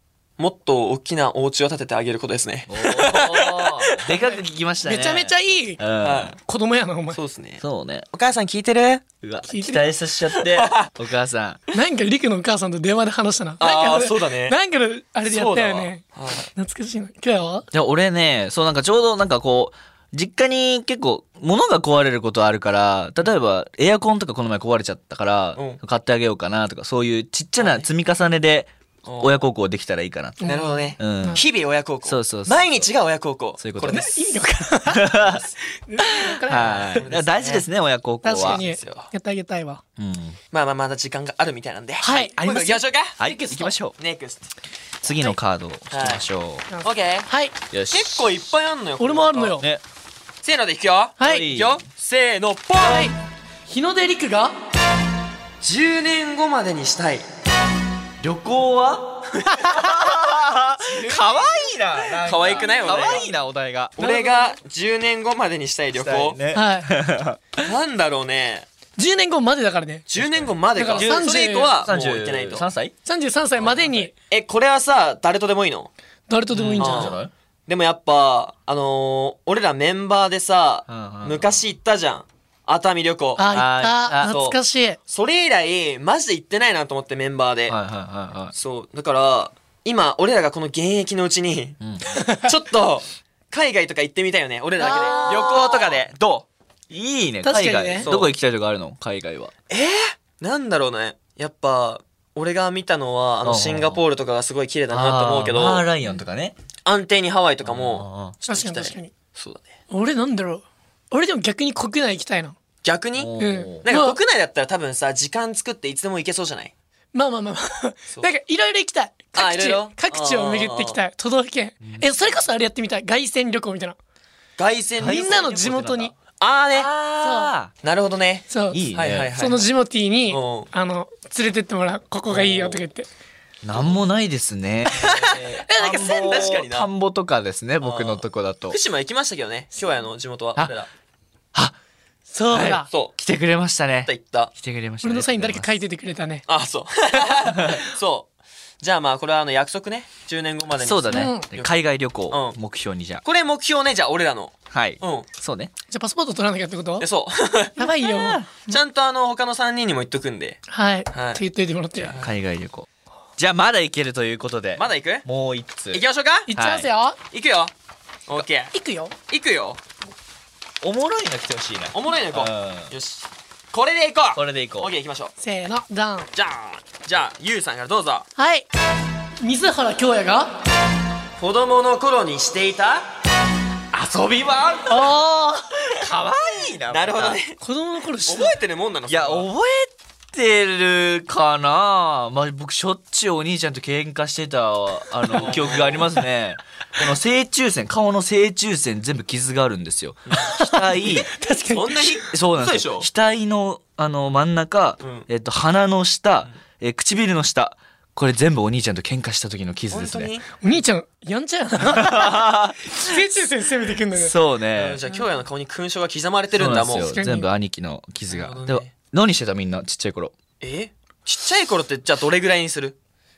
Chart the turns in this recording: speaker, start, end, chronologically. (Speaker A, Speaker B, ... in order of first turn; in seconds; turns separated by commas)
Speaker A: 0.4-4.2, Speaker B: 2.7-6.3, Speaker C: 4.8-5.8, Speaker A: 6.0-6.4, Speaker C: 6.5-7.2, Speaker A: 7.1-7.6, Speaker B: 7.6-8.1, Speaker A: 8.1-9.1, Speaker B: 9.2-11.6, Speaker C: 9.5-9.8, Speaker A: 10.4-10.9, Speaker C: 11.7-16.0, Speaker A: 13.6-14.5, Speaker A: 15.2-16.5, Speaker C: 16.6-17.6, Speaker B: 17.7-30.4, Speaker A: 25.6-25.8, Speaker A: 27.6-27.9, Speaker A: 29.0-29.4, Speaker C: 30.4-31.4, Speaker A: 30.4-34.2, Speaker B: 31.0-31.4, Speaker B: 32.0-32.9, Speaker B: 33.6-34.0, Speaker C: 33.8-35.3, Speaker B: 34.9-35.4, Speaker C: 35.9-37.0, Speaker B: 36.5-38.6, Speaker A: 36.5-37.6, Speaker C: 38.2-39.8, Speaker A: 38.3-39.1, Speaker B: 40.0-40.4, Speaker A: 40.5-43.2, Speaker C: 42.0-42.4, Speaker B: 42.4-43.9, Speaker C: 43.2-43.7, Speaker A: 44.0-44.5, Speaker B: 45.0-46.6, Speaker A: 45.9-46.2, Speaker C: 46.7-47.5, Speaker A: 46.8-47.3, Speaker B: 47.7-48.2, Speaker A: 47.9-49.5, Speaker C: 49.0-49.6, Speaker B: 49.6-49.8, Speaker A: 50.4-53.1, Speaker C: 51.2-51.5, Speaker B: 51.2-51.8, Speaker C: 52.8-53.1, Speaker C: 53.7-54.5, Speaker A: 55.6-57.2, Speaker B: 58.2-64.0, Speaker C: 59.5-59.8, Speaker A: 62.2-63.3, Speaker A: 64.0-66.4, Speaker C: 64.0-64.5, Speaker B: 65.9-67.6, Speaker C: 66.5-66.9, Speaker A: 67.6-68.7, Speaker C: 69.0-70.0, Speaker A: 70.1-72.7, Speaker B: 70.2-72.9, Speaker C: 70.8-71.7, Speaker C: 73.0-74.1, Speaker A: 73.6-75.9, Speaker C: 76.3-77.2, Speaker B: 76.5-77.3, Speaker A: 76.8-83.4, Speaker B: 80.9-81.5, Speaker C: 83.4-85.0, Speaker B: 83.5-84.4, Speaker A: 84.2-87.8, Speaker B: 87.7-88.5, Speaker A: 88.5-91.8, Speaker B: 91.8-92.2, Speaker C: 92.1-92.5, Speaker A: 92.4-96.5, Speaker C: 94.8-95.8, Speaker B: 96.9-99.5, Speaker C: 97.4-98.1, Speaker A: 98.0-98.3, Speaker A: 99.7-105.9, Speaker B: 103.4-104.0, Speaker B: 104.9-106.5, Speaker A: 106.8-109.6, Speaker B: 107.6-108.3, Speaker C: 108.5-109.1, Speaker C: 109.9-112.5, Speaker A: 112.8-116.7, Speaker B: 113.2-113.8, Speaker C: 113.4-114.2, Speaker C: 117.1-124.0, Speaker A: 119.3-121.0, Speaker B: 121.8-122.1, Speaker A: 124.6-125.6, Speaker B: 125.0-126.1, Speaker C: 125.0-126.1, Speaker A: 126.4-126.9, Speaker B: 126.7-127.7, Speaker C: 127.2-127.5, Speaker A: 127.8-129.7, Speaker C: 128.5-128.8, Speaker B: 128.7-129.3, Speaker C: 129.3-133.1, Speaker A: 130.3-130.7, Speaker A: 132.3-132.8, Speaker B: 133.6-138.8, Speaker A: 134.9-136.9, Speaker C: 135.7-136.4, Speaker A: 137.8-140.9, Speaker C: 142.3-142.9, Speaker B: 142.5-145.7, Speaker A: 142.6-143.2, Speaker A: 144.0-144.5, Speaker C: 145.0-146.4, Speaker A: 146.5-148.3, Speaker A: 148.8-151.7, Speaker B: 150.8-153.2, Speaker C: 151.1-151.5, Speaker A: 152.3-152.6, Speaker A: 153.2-155.3, Speaker B: 154.7-155.7, Speaker C: 155.9-157.1, Speaker A: 157.0-157.8, Speaker C: 157.8-158.7, Speaker B: 158.0-158.4, Speaker A: 158.7-160.6, Speaker C: 160.7-162.1, Speaker A: 161.1-161.4, Speaker A: 162.0-162.3, Speaker B: 162.2-166.0, Speaker A: 164.8-165.2, Speaker A: 165.9-166.5, Speaker C: 166.5-167.2, Speaker B: 166.5-166.9, Speaker A: 167.3-167.7, Speaker A: 168.3-168.7, Speaker C: 168.7-169.1, Speaker A: 169.3-169.8, Speaker B: 170.8-172.9, Speaker A: 171.9-175.3, Speaker B: 174.3-174.9, Speaker C: 175.4-176.3, Speaker A: 176.3-178.3, Speaker C: 178.4-178.7, Speaker C: 179.4-180.5, Speaker A: 181.4-183.1, Speaker B: 183.9-185.1, Speaker C: 184.9-185.7, Speaker B: 185.9-187.4, Speaker A: 186.9-187.6, Speaker C: 187.6-188.5, Speaker A: 188.3-189.5, Speaker B: 189.1-201.3, Speaker A: 195.3-196.1, Speaker C: 200.5-202.1, Speaker A: 201.7-203.1, Speaker B: 202.2-210.3, Speaker A: 205.0-205.3, Speaker A: 209.9-210.6, Speaker C: 210.6-214.3, Speaker B: 211.9-213.1, Speaker B: 214.1-215.0, Speaker A: 214.7-217.1, Speaker B: 216.5-220.3, Speaker C: 217.1-217.5, Speaker A: 218.3-218.9, Speaker A: 220.6-223.0